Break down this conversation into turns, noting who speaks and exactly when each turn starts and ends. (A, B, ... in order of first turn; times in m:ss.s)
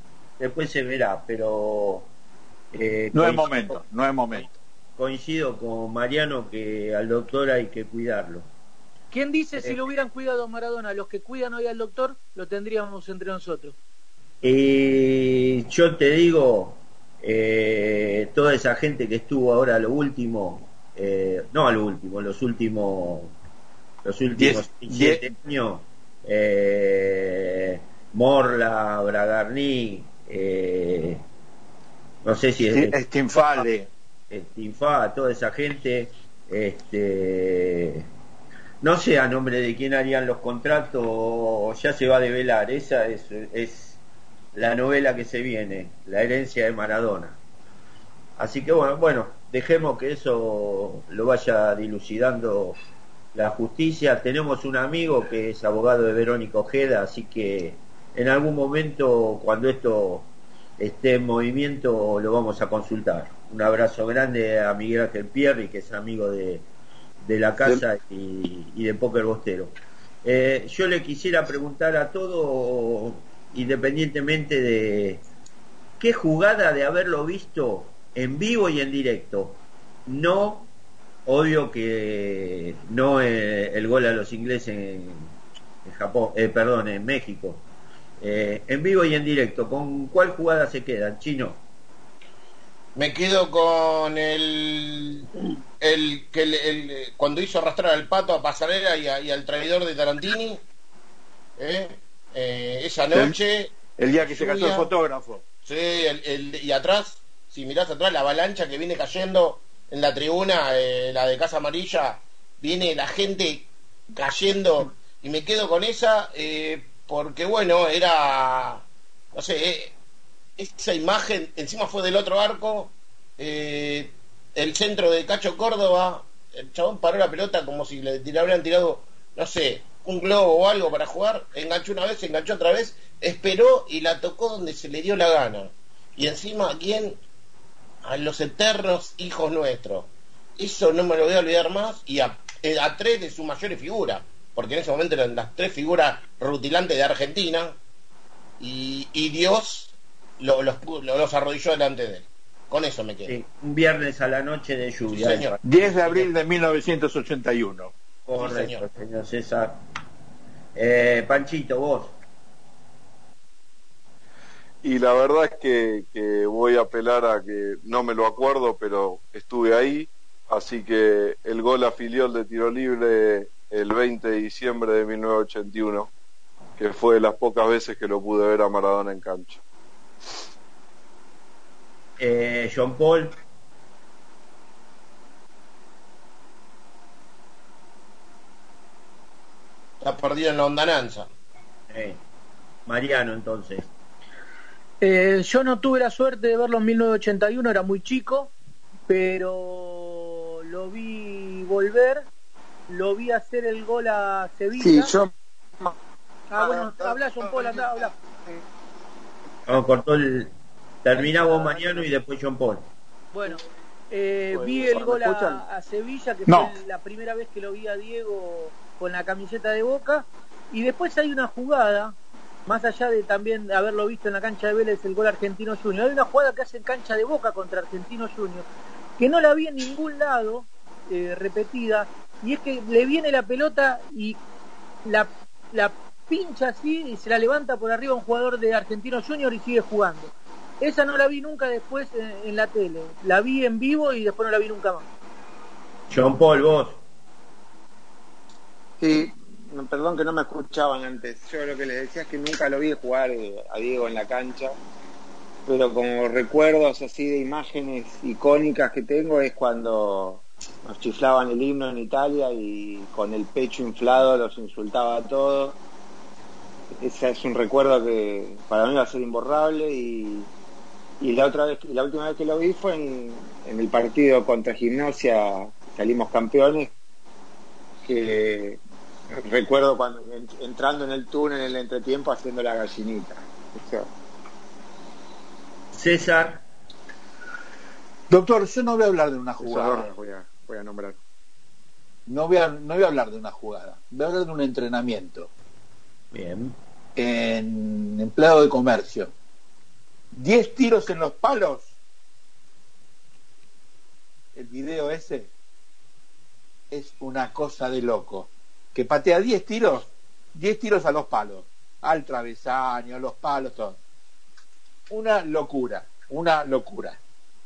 0:00.4-0:02.1 A
0:02.7-0:03.8 A
0:03.1-0:04.5 B
0:05.0-0:08.5 A
0:09.1-0:13.8 C
0:14.4-0:23.3 A
0:24.0-0:31.2 A
0:24.4-0:25.2 B
0:32.2-0:33.0 A
0:32.7-0:33.9 B
0:34.3-0:38.1 A
0:38.8-0:44.0 A
0:44.5-0:47.4 A
0:48.4-0:52.8 A
0:53.3-1:06.6 A
1:07.2-1:15.2 A
1:16.0-1:20.7 A
1:21.3-1:25.3 A
1:25.8-1:27.6 A
1:28.2-1:31.6 A
1:33.0-1:35.3 D
1:35.8-1:40.6 D
1:41.6-1:44.9 D
1:43.1-1:43.4 B
1:44.0-1:45.4 B
1:45.6-2:00.0 D
2:00.6-2:17.2 D
2:18.0-2:27.8 D
2:28.6-2:33.4 D
2:33.3-2:36.3 A
2:35.1-2:35.6 D
2:35.6-2:37.9 B
2:38.3-2:39.8 A
2:38.4-2:38.8 D
2:40.8-2:42.2 A
2:44.8-2:56.1 E
2:56.8-2:59.6 E
3:02.2-3:03.4 A
3:10.0-3:11.3 D
3:11.9-3:12.2 A
3:12.9-3:13.9 A
3:15.0-3:18.5 C
3:19.1-3:22.3 C
3:22.9-3:25.1 C
3:24.8-3:25.3 F
3:26.5-3:28.2 C
3:26.6-3:28.1 F
3:29.7-3:30.5 A
3:31.0-3:32.8 A
3:33.3-3:42.2 C
3:34.6-3:35.5 F
3:36.5-3:36.7 B
3:42.7-3:48.7 C
3:49.2-3:54.4 C
3:55.1-4:05.1 C
4:06.1-4:07.0 A
4:09.0-4:14.8 F
4:15.7-4:25.8 F
4:27.0-4:30.5 F
4:31.2-4:36.9 F
4:38.0-4:38.8 F
4:39.3-4:44.1 F
4:45.9-4:46.6 A
4:48.3-4:50.1 B
4:49.6-4:51.2 F
4:52.3-4:55.5 B
4:56.3-4:56.8 A
4:57.2-4:59.3 B
5:00.3-5:01.9 B
5:04.6-5:05.5 B
5:06.9-5:14.0 B
5:15.1-5:17.2 B